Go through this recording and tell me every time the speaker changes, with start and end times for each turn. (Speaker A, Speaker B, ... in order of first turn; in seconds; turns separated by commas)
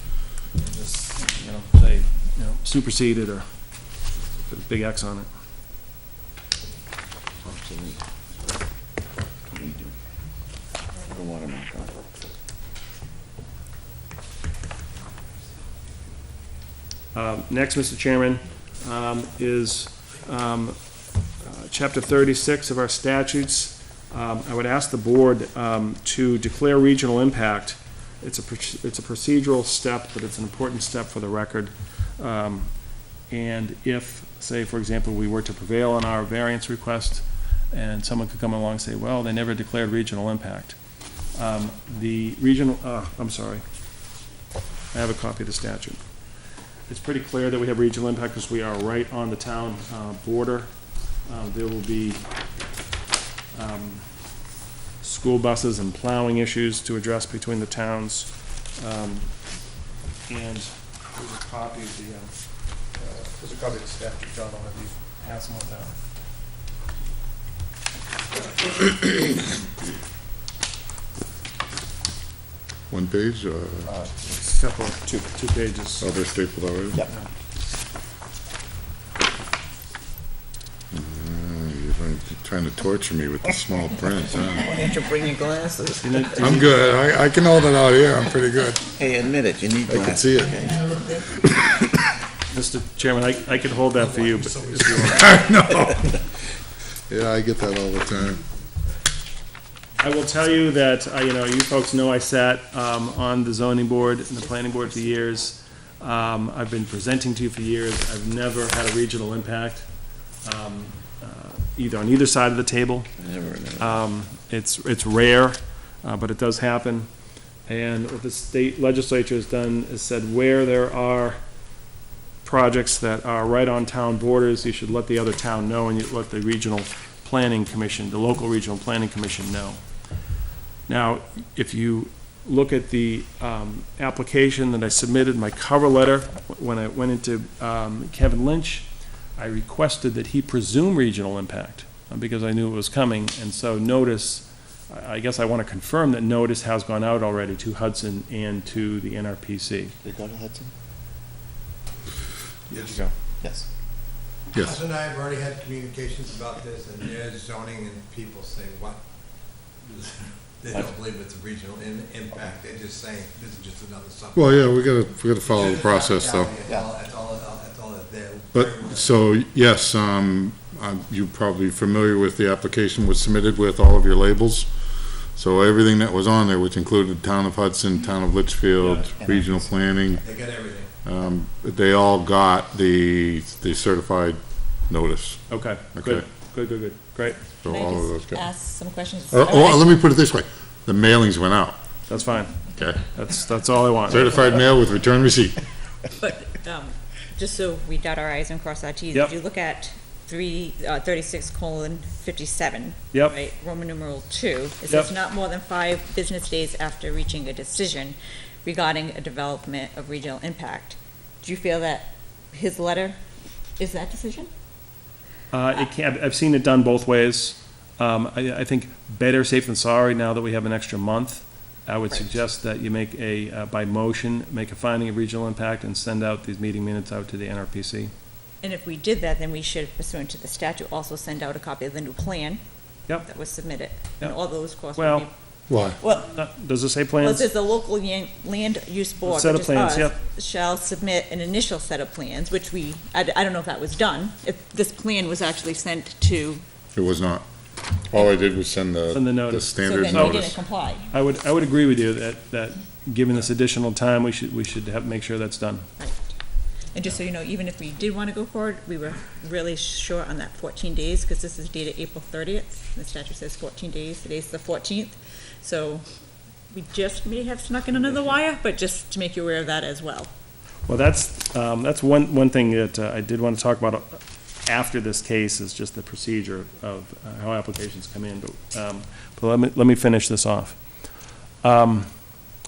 Speaker A: 0.6-3.5, Speaker A: 4.5-5.3, Speaker B: 7.4-8.0, Speaker B: 9.5-9.9, Speaker B: 11.1-11.9, Speaker A: 17.1-20.8, Speaker A: 21.4-32.7, Speaker A: 33.3-40.8, Speaker A: 41.3-43.6, Speaker A: 44.9-46.0, Speaker A: 46.9-50.7, Speaker A: 51.2-52.2, Speaker A: 53.5-54.0, Speaker A: 55.0-59.3, Speaker A: 60.3-62.3, Speaker A: 62.9-66.0, Speaker C: 72.9-73.9, Speaker A: 74.2-76.0, Speaker C: 76.0-77.0, Speaker C: 80.9-84.7, Speaker B: 84.6-86.4, Speaker A: 86.0-86.7, Speaker C: 86.4-88.8, Speaker B: 88.9-90.8, Speaker C: 89.9-91.6, Speaker A: 92.5-95.3, Speaker C: 94.8-96.2, Speaker C: 97.1-98.4, Speaker A: 100.0-109.9, Speaker D: 104.3-105.1, Speaker A: 110.4-113.1, Speaker B: 113.2-114.0, Speaker A: 113.8-117.1, Speaker A: 117.7-121.4, Speaker A: 122.4-129.8, Speaker A: 130.9-149.9, Speaker B: 150.0-150.7, Speaker A: 152.7-153.1, Speaker E: 154.6-159.0, Speaker E: 159.8-164.6, Speaker C: 164.3-166.5, Speaker E: 165.5-169.1, Speaker C: 168.5-174.7, Speaker C: 175.3-180.2, Speaker A: 178.8-179.0, Speaker B: 179.2-179.5, Speaker E: 180.2-180.9, Speaker C: 181.0-185.4, Speaker A: 185.5-187.4, Speaker C: 185.9-186.2, Speaker C: 187.6-188.4, Speaker D: 187.7-189.9, Speaker C: 189.3-191.8, Speaker A: 192.1-194.3, Speaker C: 192.7-193.0, Speaker C: 194.1-195.6, Speaker D: 196.1-213.2, Speaker D: 213.8-214.5, Speaker A: 215.5-228.1, Speaker D: 228.6-232.6, Speaker D: 233.2-235.3, Speaker A: 234.9-235.3, Speaker C: 235.7-236.0, Speaker D: 236.0-236.3, Speaker A: 236.3-237.5, Speaker D: 237.2-246.6, Speaker A: 239.2-240.2, Speaker C: 246.9-247.4, Speaker C: 248.1-250.6, Speaker A: 249.1-250.5, Speaker D: 249.8-251.1, Speaker A: 251.1-255.9, Speaker D: 256.0-256.3, Speaker D: 256.9-266.0, Speaker D: 266.7-270.3, Speaker A: 270.9-280.8, Speaker A: 281.6-282.1